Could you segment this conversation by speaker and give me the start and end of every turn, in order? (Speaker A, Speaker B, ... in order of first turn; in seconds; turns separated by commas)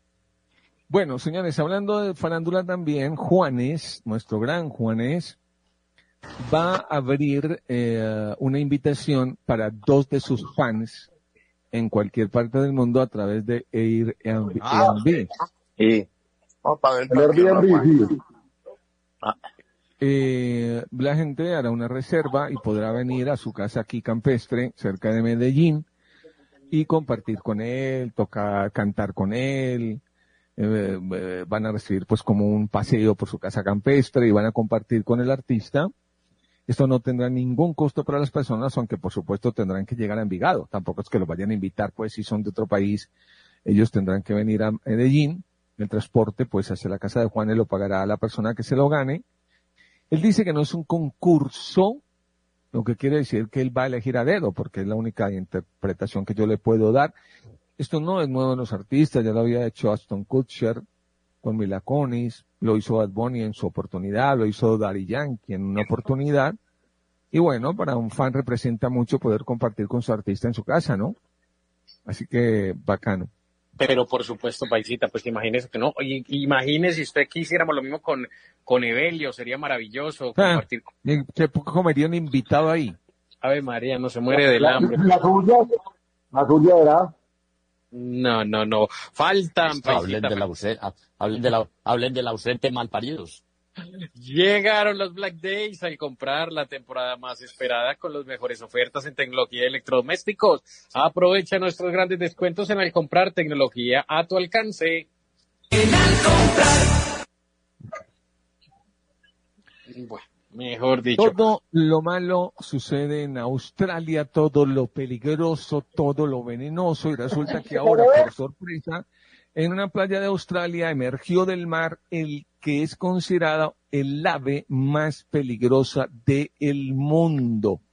Speaker A: 0.9-5.4, Speaker A: 6.4-11.1, Speaker A: 11.7-15.3, Speaker B: 14.6-15.0, Speaker B: 15.8-16.0, Speaker B: 16.6-18.0, Speaker C: 17.1-18.1, Speaker A: 20.0-25.9, Speaker A: 26.7-30.0, Speaker A: 30.6-35.9, Speaker A: 36.7-43.1, Speaker A: 43.6-49.2, Speaker A: 50.1-52.0, Speaker A: 52.7-57.1, Speaker A: 57.8-60.8, Speaker A: 61.4-66.6, Speaker A: 67.3-71.2, Speaker A: 72.0-73.3, Speaker D: 73.8-80.9, Speaker A: 80.3-83.0, Speaker D: 83.4-85.1, Speaker C: 84.4-85.7, Speaker C: 86.3-87.1, Speaker D: 87.9-90.4, Speaker E: 89.6-93.4, Speaker D: 94.1-105.0, Speaker D: 105.8-106.7, Speaker D: 109.9-111.4, Speaker A: 111.2-127.8, Speaker C: 117.5-118.3